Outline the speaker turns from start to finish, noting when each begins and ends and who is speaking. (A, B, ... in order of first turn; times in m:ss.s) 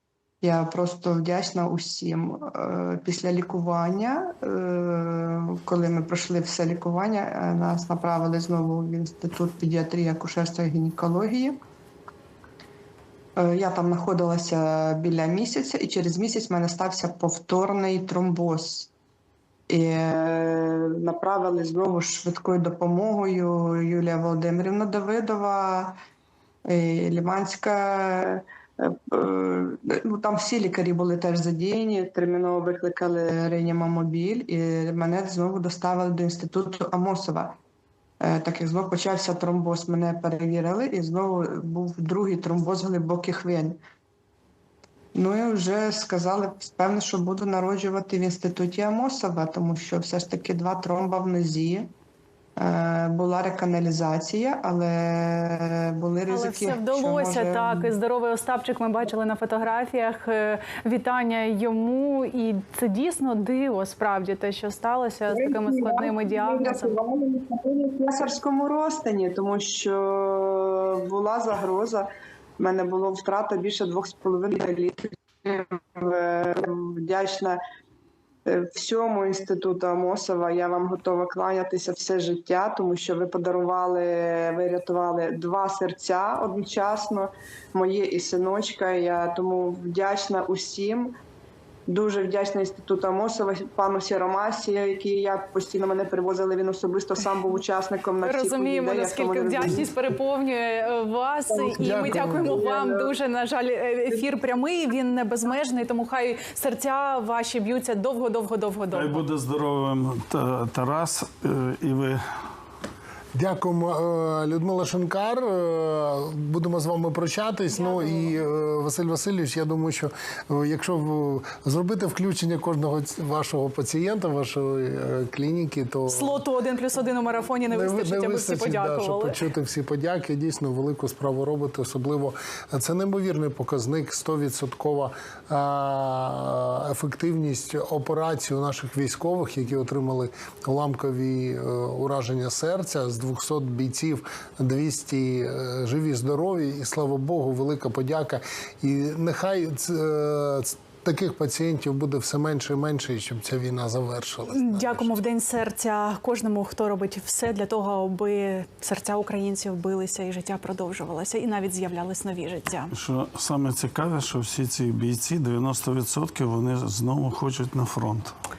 0:00.4-0:11.6 A
0:13.4-0:18.9 A
0:19.7-0:25.9 A
0:26.7-0:37.5 A
0:38.2-0:43.8 A
0:45.1-0:51.9 A
0:52.6-0:57.9 A
0:56.3-1:07.0 B
1:05.3-1:12.0 A
1:12.6-1:17.6 A
1:18.4-1:31.1 A
1:31.9-1:39.9 A
1:38.2-1:49.2 B
1:41.5-1:43.1 A
1:41.6-1:42.6 C
1:48.9-1:52.2 D
1:53.3-2:06.4 C
1:57.7-1:58.4 B
2:06.1-2:09.4 B
2:07.7-2:35.2 C
2:34.5-2:42.9 B
2:42.9-2:48.4 D